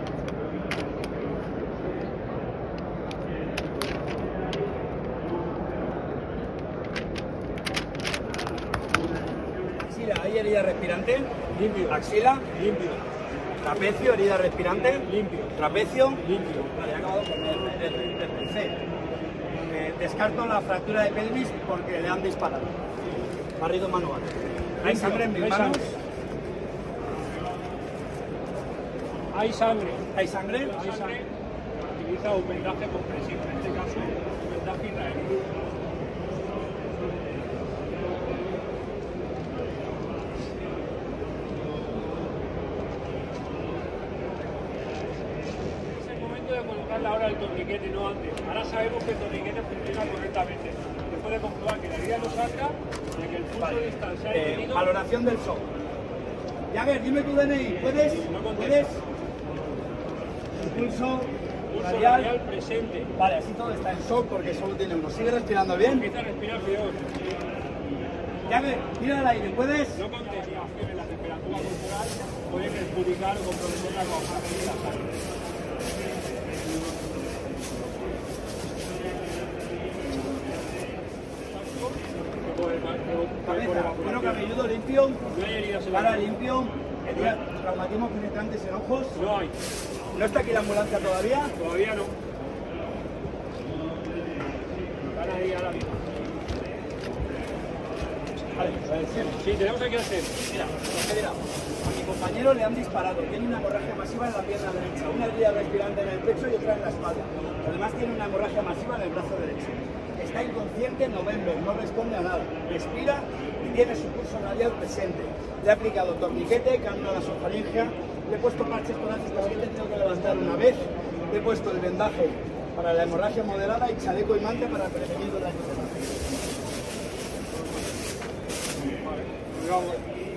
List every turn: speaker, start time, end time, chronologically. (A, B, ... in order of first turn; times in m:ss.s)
0:09.8-0:11.3 A
0:11.5-0:13.0 B
0:11.9-0:12.4 A
0:13.6-0:18.8 A
0:15.0-0:15.6 B
0:16.2-0:16.7 B
0:19.7-0:22.7 A
0:23.6-0:26.0 A
0:24.8-0:25.8 B
0:29.3-0:30.0 B
0:30.1-0:31.1 A
0:30.6-0:31.3 B
0:31.8-0:35.4 B
0:45.9-0:54.9 B
0:53.6-0:55.6 A
0:56.7-0:59.0 A
0:57.8-0:59.0 B
1:00.6-1:02.3 A
1:01.7-1:03.1 B
1:03.2-1:06.0 A
1:05.8-1:07.0 B
1:08.5-1:10.0 A
1:10.0-1:15.1 B
1:21.5-1:24.5 B
1:23.4-1:25.2 A
1:25.3-1:26.3 B
1:25.9-1:29.2 A
1:29.1-1:29.5 B
1:30.1-1:31.5 A
1:31.6-1:32.1 B
1:35.1-1:36.0 B
1:38.6-1:39.3 A
1:39.3-1:40.3 B
1:40.5-2:06.1 A
2:09.7-2:10.0 B